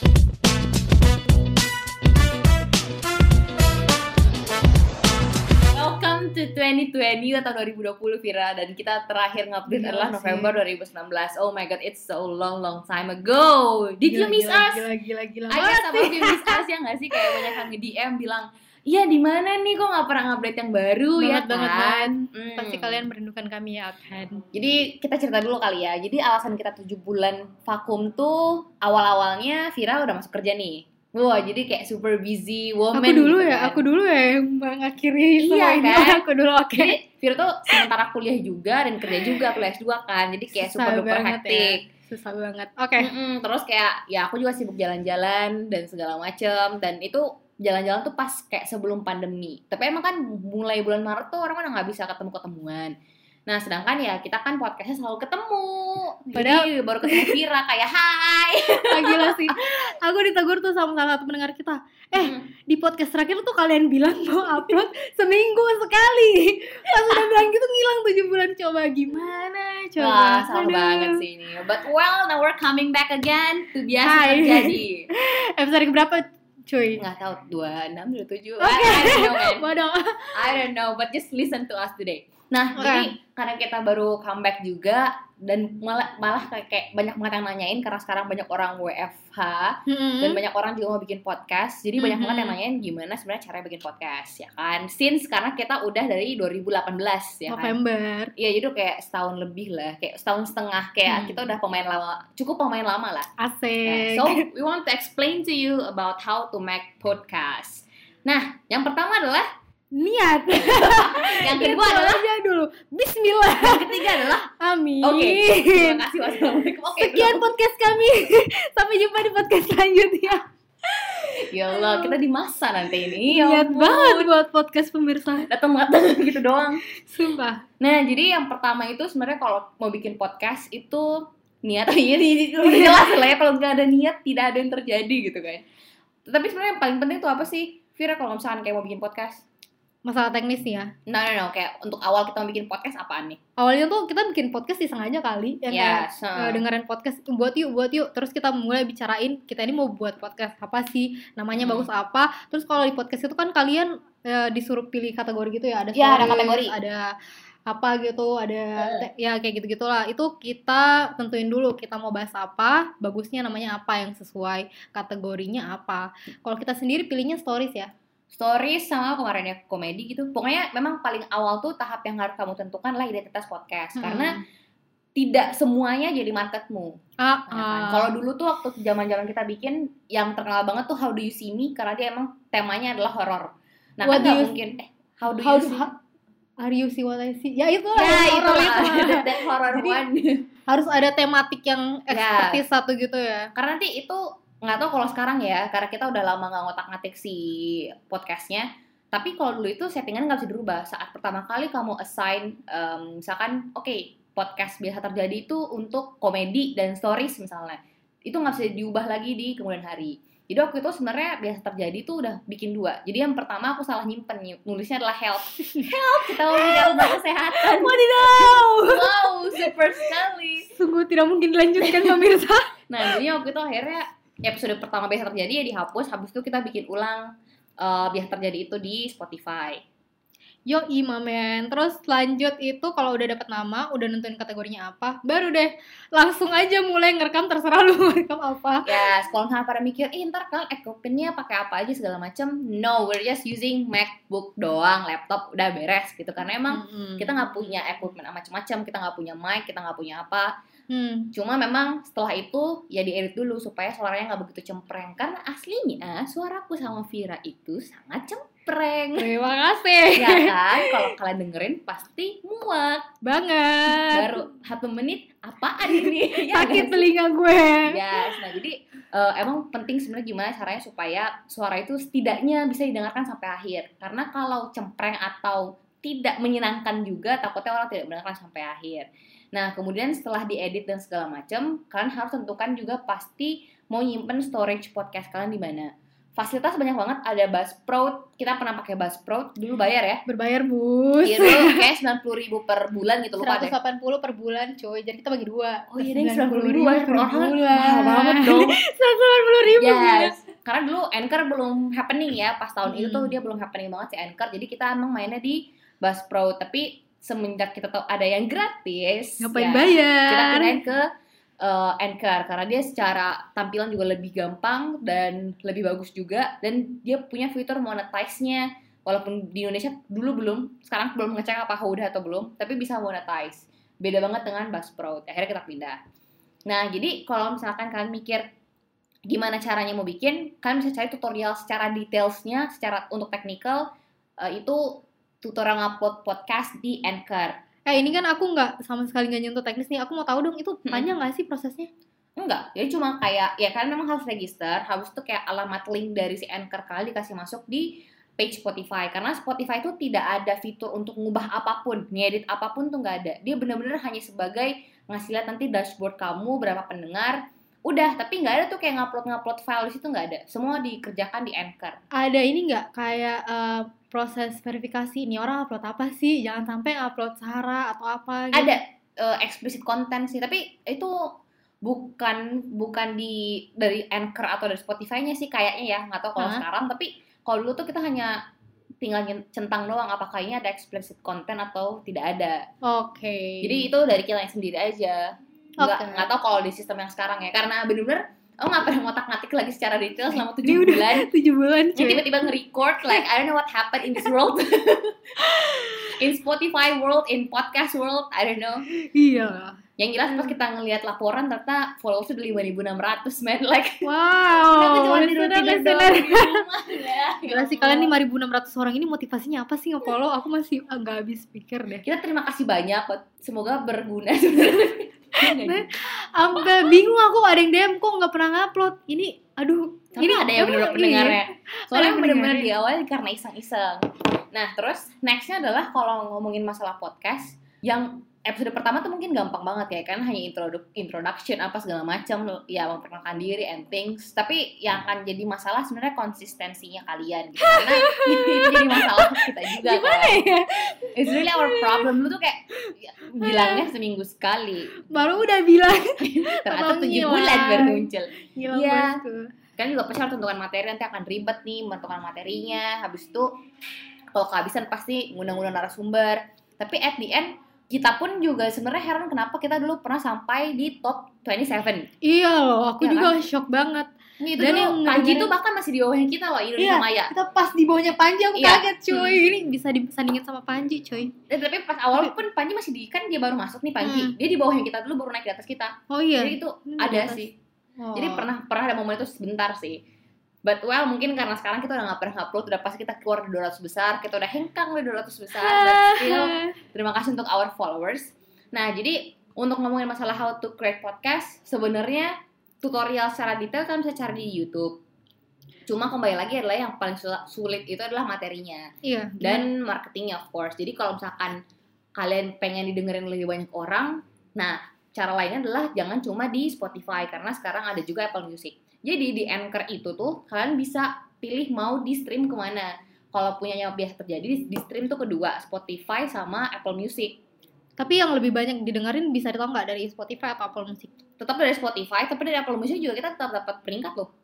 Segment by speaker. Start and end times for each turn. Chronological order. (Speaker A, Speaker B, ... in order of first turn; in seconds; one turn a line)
Speaker A: 5.7-14.9
Speaker B: 9.7-10.6
Speaker B: 14.1-16.6
Speaker A: 15.5-23.0
Speaker B: 17.1-17.7
Speaker B: 21.2-24.4
Speaker A: 24.5-33.8
Speaker B: 32.9-37.0
Speaker A: 35.4-36.2
Speaker A: 36.7-41.8
Speaker B: 39.1-39.4
Speaker B: 40.5-43.1
Speaker A: 43.0-52.9
Speaker A: 53.5-59.5
Speaker B: 56.3-57.4
Speaker B: 58.9-71.2
Speaker A: 62.1-62.5
Speaker A: 70.0-75.1
Speaker B: 74.0-77.0
Speaker A: 77.0-79.7
Speaker B: 78.6-80.5
Speaker A: 80.3-97.8
Speaker B: 82.8-83.1
Speaker B: 89.9-90.4
Speaker B: 92.0-92.6
Speaker B: 97.5-98.3
Speaker A: 98.4-103.3
Speaker B: 101.1-101.5
Speaker B: 103.4-104.4
Speaker A: 103.9-109.5
Speaker B: 110.0-116.0
Speaker A: 110.5-112.2
Speaker A: 113.5-114.5
Speaker A: 115.0-117.5
Speaker B: 117.0-120.4
Speaker A: 121.5-124.3
Speaker B: 121.7-122.1
Speaker B: 123.2-125.5
Speaker A: 125.5-126.8
Speaker B: 127.0-127.6
Speaker A: 127.8-135.6
Speaker B: 132.7-133.0
Speaker A: 136.3-139.4
Speaker B: 140.1-140.9
Speaker A: 141.1-143.4
Speaker B: 143.6-157.1
Speaker A: 145.7-146.6
Speaker A: 151.6-151.9
Speaker A: 155.9-156.8
Speaker B: 157.7-167.9
Speaker A: 158.8-159.1
Speaker A: 168.3-174.4
Speaker B: 174.0-174.4
Speaker A: 175.2-177.0
Speaker B: 177.2-178.1
Speaker A: 177.5-185.9
Speaker B: 184.0-184.6
Speaker B: 185.3-185.9
Speaker B: 186.6-190.1
Speaker A: 187.9-190.5
Speaker B: 190.7-193.5
Speaker A: 192.1-192.6
Speaker A: 193.6-220.7
Speaker B: 215.7-220.1
Speaker B: 220.8-223.2
Speaker A: 221.8-222.3
Speaker A: 222.9-229.8
Speaker B: 230.7-238.9
Speaker A: 238.8-250.5
Speaker B: 246.7-247.5
Speaker B: 250.9-251.3
Speaker A: 251.3-259.3
Speaker B: 259.2-261.1
Speaker A: 260.1-263.1
Speaker B: 263.2-264.4
Speaker A: 263.9-267.1
Speaker B: 266.5-268.0
Speaker A: 267.9-290.2
Speaker B: 290.3-291.9
Speaker A: 291.2-293.8
Speaker B: 293.4-300.4
Speaker A: 295.9-298.8
Speaker A: 299.8-311.1
Speaker B: 302.9-303.3
Speaker B: 309.4-310.8
Speaker A: 311.6-326.0
Speaker A: 326.7-328.4
Speaker A: 329.3-333.8
Speaker A: 334.4-337.5
Speaker B: 337.9-341.9
Speaker A: 342.4-362.0
Speaker B: 362.1-368.8
Speaker A: 368.5-371.3
Speaker A: 371.8-378.4
Speaker B: 376.4-376.6
Speaker A: 379.0-382.6
Speaker B: 382.8-383.9
Speaker A: 383.6-391.3
Speaker B: 385.8-386.3
Speaker B: 390.5-392.4
Speaker A: 391.9-395.1
Speaker B: 395.6-395.9
Speaker A: 396.2-398.8
Speaker B: 399.1-399.8
Speaker A: 400.0-404.1
Speaker B: 404.0-406.6
Speaker A: 404.7-408.1
Speaker B: 407.5-412.0
Speaker A: 412.0-415.9
Speaker B: 415.4-422.7
Speaker A: 416.6-416.8
Speaker A: 420.1-440.4
Speaker B: 437.6-442.1
Speaker A: 441.1-444.9
Speaker B: 443.4-443.9
Speaker B: 445.0-449.5
Speaker A: 446.2-449.2
Speaker A: 449.8-453.5
Speaker A: 454.3-462.1
Speaker B: 462.2-465.5
Speaker A: 463.0-463.3
Speaker A: 464.4-467.3
Speaker B: 466.8-471.3
Speaker A: 468.5-469.4
Speaker A: 471.5-477.5
Speaker B: 474.0-474.4
Speaker B: 476.1-478.5
Speaker A: 478.1-480.0
Speaker A: 480.6-495.0
Speaker B: 485.5-486.8
Speaker A: 495.9-498.9
Speaker B: 499.0-499.7
Speaker A: 499.4-501.6
Speaker A: 502.2-517.4
Speaker B: 518.0-521.1
Speaker A: 521.4-524.3